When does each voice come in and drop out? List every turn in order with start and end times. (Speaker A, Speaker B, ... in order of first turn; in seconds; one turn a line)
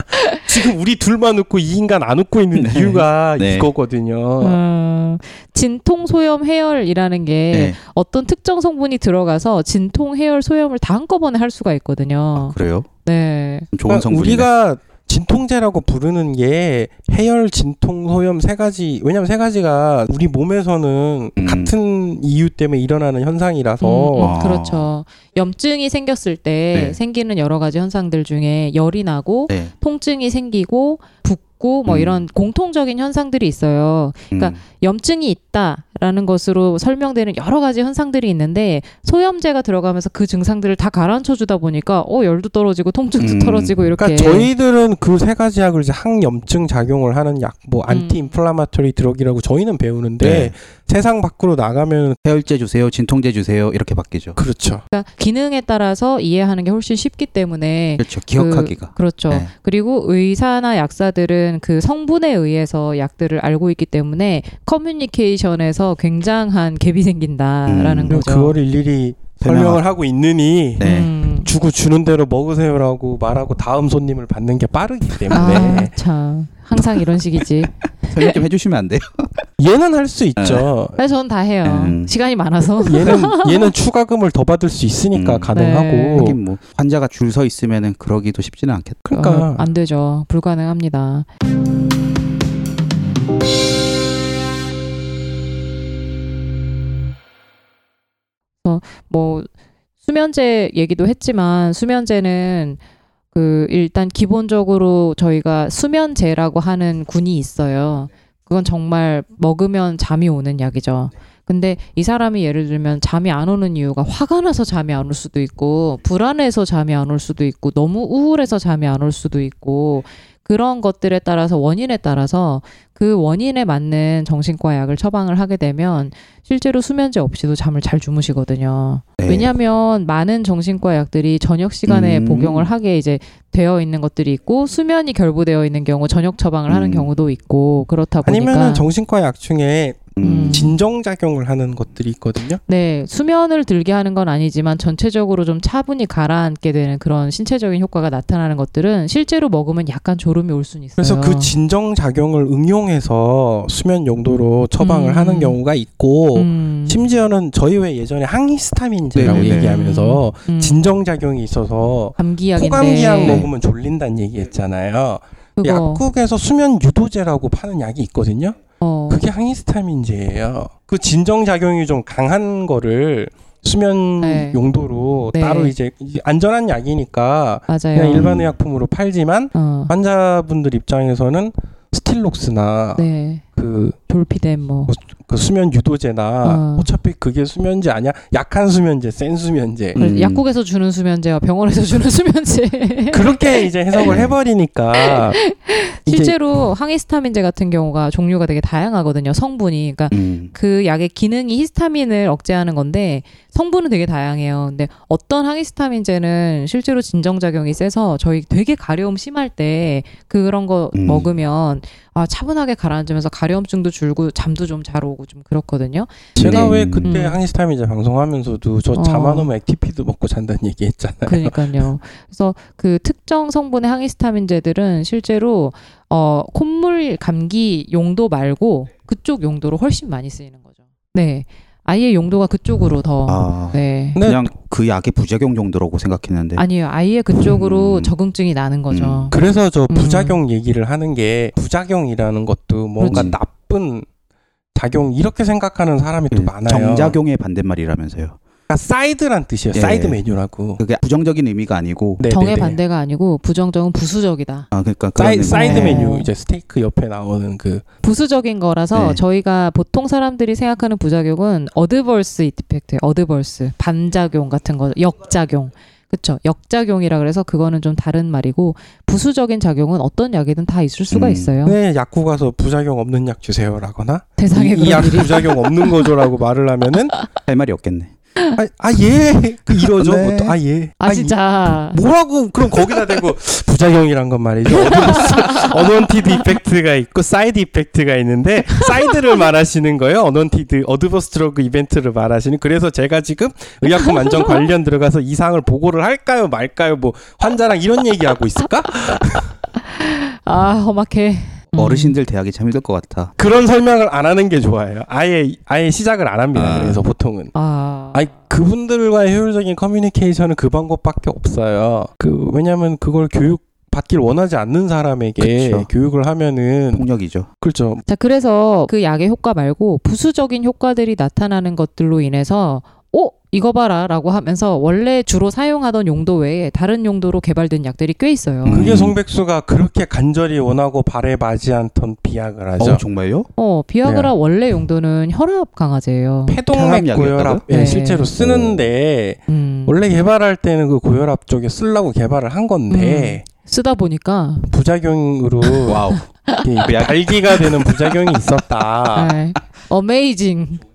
Speaker A: 0.1-0.4
Speaker B: 0.4-4.6
Speaker C: 2.5-3.7
Speaker A: 4.4-13.7
Speaker C: 7.5-7.8
Speaker C: 12.3-12.9
Speaker C: 13.7-14.5
Speaker B: 13.9-24.4
Speaker C: 21.4-21.7
Speaker A: 23.8-44.5
Speaker C: 24.2-24.9
Speaker C: 26.7-27.0
Speaker C: 31.9-32.2
Speaker C: 34.3-34.6
Speaker C: 43.2-43.7
Speaker B: 44.0-52.2
Speaker A: 47.9-48.3
Speaker C: 50.2-50.5
Speaker C: 52.2-54.4
Speaker B: 54.4-54.8
Speaker A: 54.9-68.6
Speaker C: 58.0-59.5
Speaker C: 67.7-68.2
Speaker B: 68.1-75.9
Speaker C: 69.4-69.8
Speaker C: 70.8-71.1
Speaker A: 70.8-71.5
Speaker A: 75.3-78.4
Speaker C: 78.1-79.4
Speaker B: 79.6-81.0
Speaker C: 80.4-80.7
Speaker A: 81.0-83.7
Speaker C: 81.6-82.1
Speaker B: 82.8-86.3
Speaker C: 85.1-85.5
Speaker A: 85.5-86.3
Speaker C: 86.2-89.0
Speaker B: 89.0-89.7
Speaker A: 89.1-91.3
Speaker A: 98.6-99.5
Speaker A: 100.0-102.8
Speaker A: 103.3-138.9
Speaker C: 129.2-129.5
Speaker C: 131.9-132.7
Speaker C: 136.7-137.1
Speaker B: 138.2-142.6
Speaker C: 140.2-140.7
Speaker A: 140.2-140.8
Speaker A: 142.7-151.5
Speaker B: 151.0-168.6
Speaker A: 154.8-155.6
Speaker A: 156.3-157.0
Speaker C: 159.1-159.8
Speaker A: 159.4-160.8
Speaker A: 162.2-163.4
Speaker C: 163.2-163.5
Speaker A: 165.6-166.0
Speaker A: 168.8-169.2
Speaker B: 169.1-183.0
Speaker A: 174.2-174.6
Speaker A: 175.3-175.7
Speaker A: 177.7-178.3
Speaker C: 178.1-178.5
Speaker A: 179.5-179.9
Speaker A: 182.9-183.4
Speaker B: 183.6-184.0
Speaker A: 184.1-184.9
Speaker B: 184.9-190.0
Speaker A: 186.4-186.9
Speaker C: 189.9-190.4
Speaker A: 189.9-193.7
Speaker B: 193.1-195.4
Speaker C: 194.0-194.3
Speaker A: 195.0-217.4
Speaker B: 196.1-196.3
Speaker C: 200.1-200.5
Speaker C: 210.9-211.3
Speaker C: 216.3-217.1
Speaker B: 216.4-221.6
Speaker A: 218.9-219.5
Speaker A: 221.2-230.6
Speaker A: 231.1-234.2
Speaker C: 233.3-236.6
Speaker B: 234.1-234.5
Speaker A: 236.6-239.3
Speaker C: 237.3-238.1
Speaker C: 238.9-239.3
Speaker B: 239.3-244.1
Speaker A: 239.9-240.4
Speaker A: 243.0-243.3
Speaker C: 243.1-243.4
Speaker B: 244.7-247.2
Speaker C: 246.3-248.4
Speaker B: 248.7-250.8
Speaker C: 249.7-250.2
Speaker C: 250.8-252.2
Speaker B: 252.2-252.8
Speaker A: 252.3-254.7
Speaker C: 254.7-256.0
Speaker B: 255.2-257.8
Speaker A: 255.5-256.3
Speaker A: 258.0-271.8
Speaker C: 258.9-259.2
Speaker C: 271.1-271.5
Speaker B: 271.6-277.1
Speaker A: 274.4-276.1
Speaker C: 277.4-278.1
Speaker B: 278.6-299.5
Speaker C: 279.7-280.6
Speaker A: 281.0-282.0
Speaker A: 284.8-285.7
Speaker A: 294.0-294.5
Speaker A: 299.8-302.1
Speaker C: 301.7-303.3
Speaker B: 303.4-307.5
Speaker C: 306.5-307.0
Speaker A: 307.5-308.3
Speaker B: 308.1-317.1
Speaker C: 315.4-315.9
Speaker C: 316.9-317.5
Speaker B: 317.6-318.0
Speaker A: 318.1-328.9
Speaker C: 328.6-329.2
Speaker B: 328.7-333.0
Speaker C: 332.8-333.5
Speaker A: 333.6-336.6
Speaker B: 336.5-343.4
Speaker C: 336.7-337.6
Speaker A: 337.7-338.3
Speaker C: 338.4-338.9
Speaker A: 339.5-340.0
Speaker A: 342.9-344.7
Speaker B: 344.7-346.0
Speaker A: 345.8-346.7
Speaker C: 345.9-346.2
Speaker B: 346.6-349.3
Speaker C: 346.8-347.6
Speaker A: 349.1-350.8